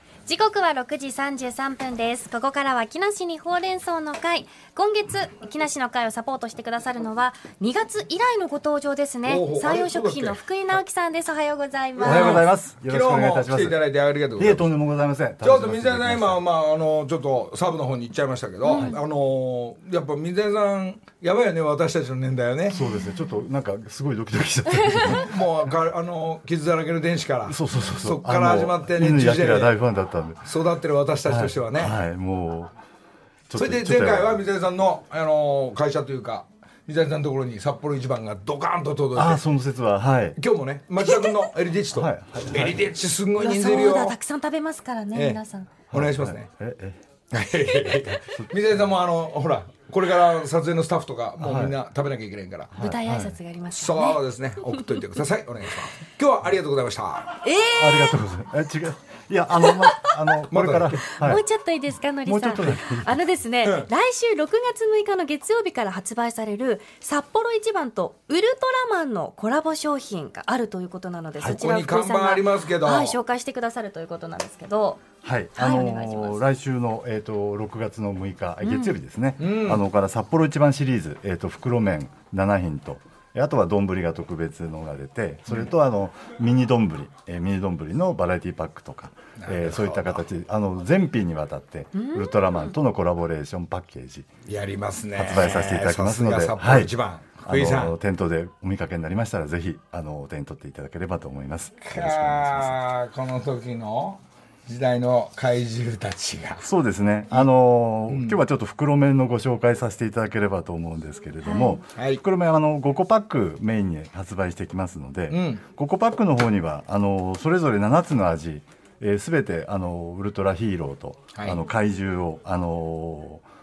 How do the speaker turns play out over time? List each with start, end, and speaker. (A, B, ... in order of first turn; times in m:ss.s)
0:00.3-0:12.5 A
0:09.2-0:10.4 B
0:12.0-0:13.8 C
0:12.0-0:14.7 B
0:14.4-0:16.4 C
0:15.4-0:22.8 B
0:18.6-0:19.0 A
0:22.7-0:25.3 C
0:25.1-0:29.8 B
0:27.5-0:30.4 C
0:30.4-0:32.0 B
0:31.3-0:32.7 C
0:33.5-0:34.4 C
0:33.6-0:39.4 B
0:39.2-0:40.4 C
0:40.4-0:44.2 B
0:41.9-0:42.9 C
0:43.4-0:45.8 A
0:45.1-0:46.5 B
0:45.9-0:47.0 C
0:47.3-0:52.7 B
0:51.4-0:51.8 C
0:52.8-0:53.4 C
0:52.8-0:54.2 A
0:53.7-0:57.3 B
0:57.4-0:58.2 A
0:57.7-1:01.4 C
1:00.5-1:01.1 B
1:01.2-1:16.4 A
1:02.2-1:03.2 C
1:03.6-1:03.9 B
1:11.4-1:13.2 B
1:15.2-1:34.3 C
1:18.6-1:19.0 A
1:19.4-1:19.8 B
1:29.4-1:30.2 B
1:32.0-1:32.6 A
1:34.5-1:38.0 B
1:35.2-1:42.8 C
1:41.8-1:46.6 B
1:46.6-2:03.4 C
1:48.1-1:48.4 B
1:51.4-1:51.8 A
1:52.0-1:52.2 B
1:55.3-1:55.6 B
2:01.4-2:01.6 B